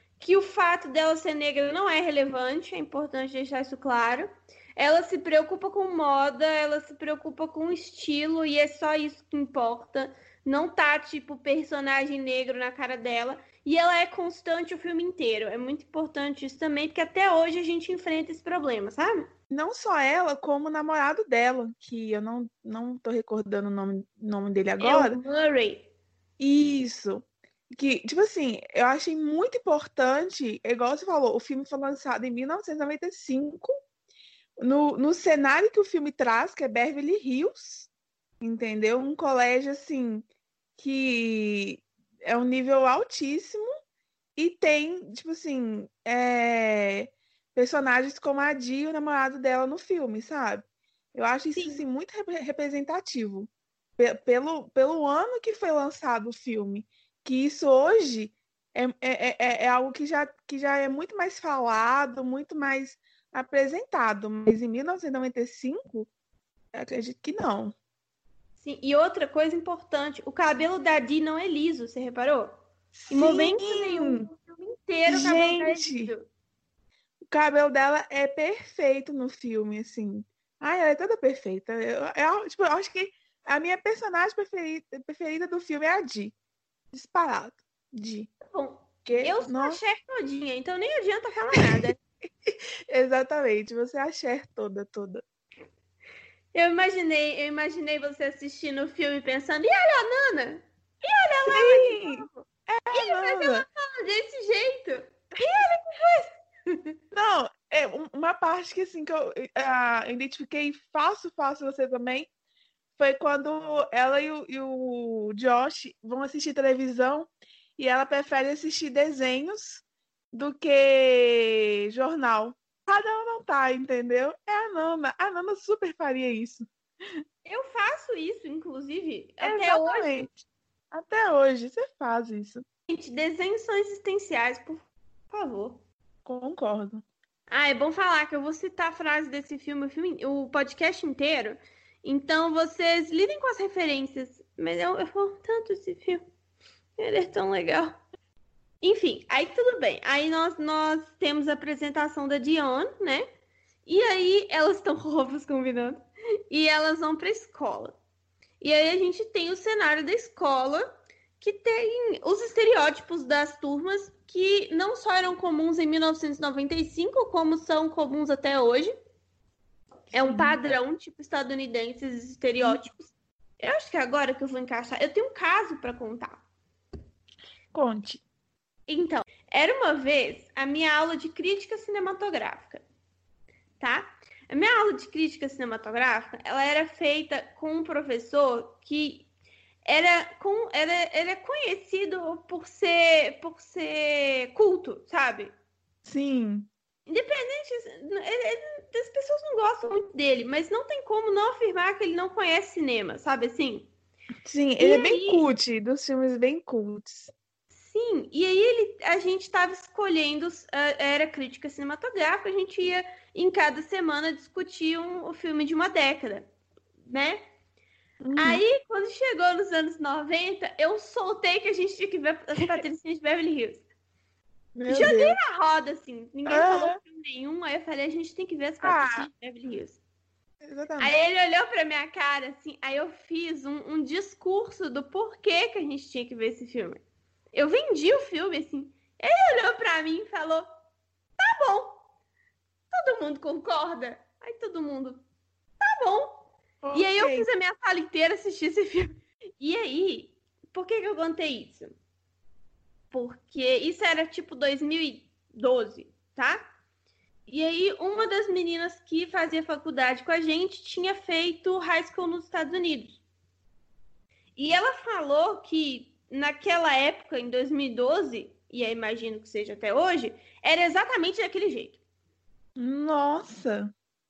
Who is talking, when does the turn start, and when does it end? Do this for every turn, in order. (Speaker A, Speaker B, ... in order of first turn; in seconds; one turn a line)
Speaker A: 0.2-19.3
Speaker B: 19.5-25.2
Speaker A: 24.8-25.9
Speaker B: 26.4-33.7
Speaker B: 34.6-37.9
Speaker B: 38.4-40.3
Speaker B: 40.8-43.7
Speaker B: 44.4-66.1
Speaker A: 51.5-51.8
Speaker B: 66.8-67.7
Speaker A: 68.6-72.5
Speaker B: 73.0-74.3
Speaker A: 73.1-76.3
Speaker B: 75.1-76.1
Speaker B: 77.3-86.3
Speaker B: 86.9-88.3
Speaker A: 88.5-92.0
Speaker B: 89.0-89.8
Speaker B: 92.5-95.2
Speaker A: 96.5-107.0
Speaker B: 101.5-103.7
Speaker B: 107.1-112.3
Speaker B: 113.0-126.7
Speaker A: 127.5-130.3
Speaker B: 129.4-130.4
Speaker B: 130.9-132.7
Speaker A: 132.9-135.8
Speaker B: 136.2-137.0
Speaker A: 137.5-146.2
Speaker A: 147.0-148.0
Speaker A: 148.8-153.3
Speaker A: 153.9-158.0
Speaker A: 158.6-160.8
Speaker A: 161.4-168.9
Speaker A: 170.1-176.4
Speaker B: 170.2-170.6
Speaker B: 177.7-178.2
Speaker A: 178.9-182.8
Speaker A: 183.8-189.3
Speaker A: 189.9-195.5
Speaker B: 196.1-196.7
Speaker A: 197.1-203.9
Speaker B: 204.4-207.3
Speaker A: 204.8-205.4
Speaker A: 207.7-216.5
Speaker A: 217.1-217.4
Speaker B: 218.2-218.6
Speaker A: 218.4-223.8
Speaker B: 224.8-225.4
Speaker A: 224.9-230.0
Speaker B: 226.5-227.0
Speaker B: 228.8-229.3
Speaker B: 230.6-231.2
Speaker A: 231.0-237.0
Speaker A: 237.5-240.7
Speaker A: 241.4-242.0
Speaker A: 242.9-245.2
Speaker A: 245.8-251.9
Speaker B: 246.8-247.5
Speaker A: 253.1-256.6
Speaker A: 257.5-263.2
Speaker A: 264.6-272.0
Speaker B: 272.8-273.9